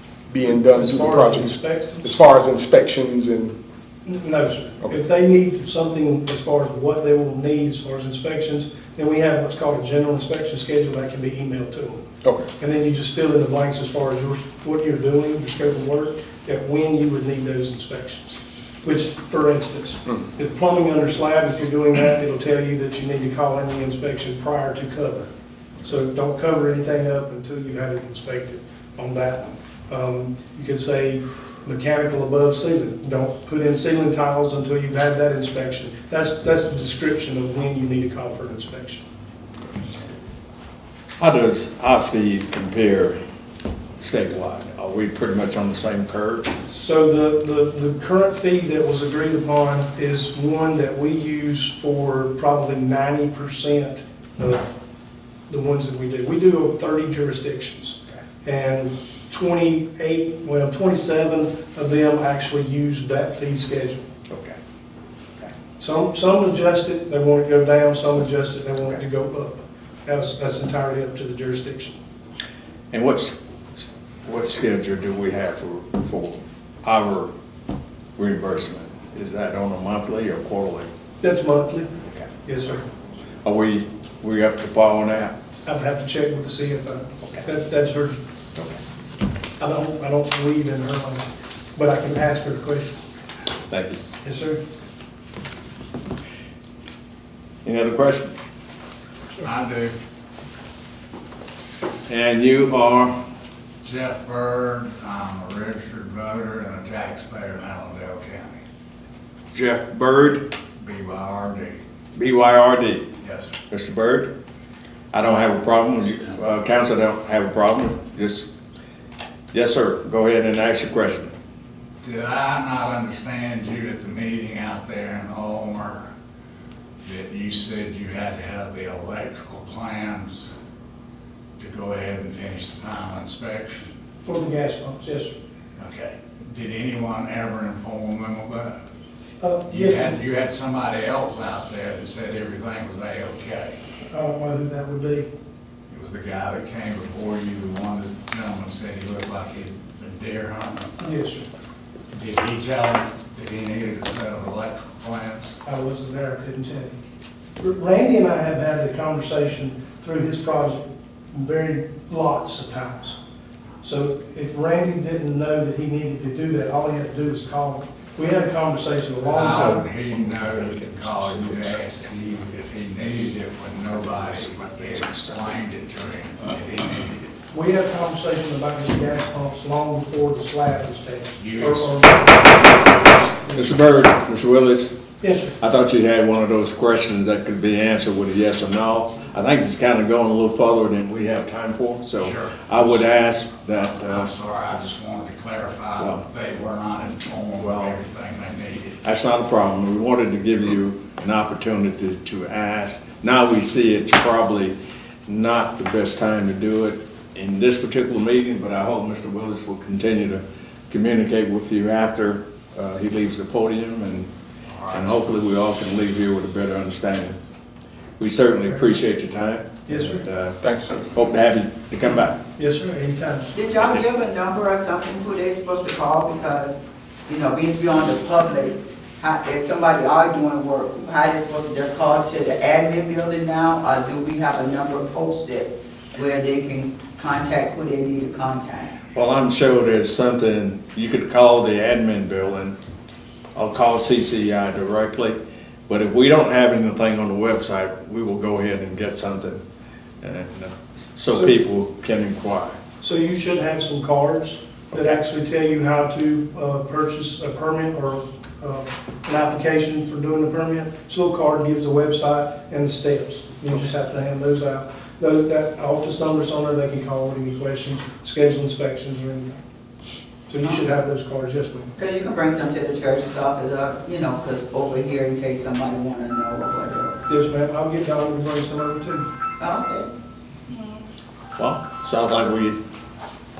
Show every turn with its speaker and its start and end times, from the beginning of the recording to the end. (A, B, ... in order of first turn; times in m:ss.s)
0:00.3-0:03.6 A
0:00.4-0:02.1 B
0:04.0-0:12.1 B
0:12.2-0:12.5 A
0:12.6-0:25.3 B
0:25.8-0:39.0 B
0:41.2-0:43.2 C
0:44.0-0:46.5 C
0:46.7-0:54.8 B
0:55.5-1:04.0 B
1:04.3-1:04.6 C
1:05.8-1:11.9 B
1:12.9-1:17.3 C
1:18.2-1:20.9 C
1:21.2-1:21.9 B
1:22.4-1:22.9 B
1:23.4-1:25.3 C
1:25.6-1:28.2 B
1:28.5-1:28.8 C
1:29.6-1:33.0 B
1:33.7-1:34.0 C
1:34.2-1:34.6 B
1:37.6-1:38.5 C
1:39.4-1:40.0 D
1:42.1-1:43.1 C
1:43.8-1:48.6 D
1:49.5-1:50.4 C
1:50.8-1:51.8 D
1:52.2-1:53.1 C
1:53.2-1:53.5 D
1:53.7-1:54.3 C
1:55.1-1:58.5 C
1:59.5-2:01.3 C
2:02.0-2:06.1 D
2:07.0-2:10.5 D
2:11.6-2:13.9 D
2:14.2-2:15.3 B
2:15.8-2:18.8 D
2:19.4-2:20.2 B
2:19.7-2:23.8 D
2:24.1-2:25.3 B
2:25.9-2:31.0 D
2:31.0-2:31.5 B
2:32.1-2:35.6 D
2:35.6-2:37.0 B
2:37.6-2:43.2 B
2:43.8-2:49.8 B
2:49.3-2:57.3 D
2:50.5-2:51.7 C
2:54.1-2:55.5 C
2:57.5-3:04.0 B
3:01.4-3:02.0 D
3:03.6-3:05.0 C
3:05.2-3:05.6 B
3:05.6-3:14.3 C
3:12.2-3:19.0 D
3:16.0-3:16.2 C
3:17.6-3:18.0 C
3:19.0-3:34.3 C
3:34.7-3:35.2 D
3:34.9-3:37.4 C
3:38.2-3:42.4 C
3:39.9-3:40.2 B
3:40.6-3:41.1 A
3:42.6-3:43.6 B
3:43.5-3:59.0 E
3:59.1-4:02.8 C
4:03.6-4:09.6 C
4:10.2-4:12.8 C
4:11.3-4:11.6 B
4:13.0-4:29.6 B
4:30.5-4:31.9 B
4:30.6-4:30.9 E
4:32.0-4:37.2 E
4:37.3-4:39.2 B
4:39.6-4:40.1 E
4:40.7-4:41.0 E
4:41.5-4:42.8 C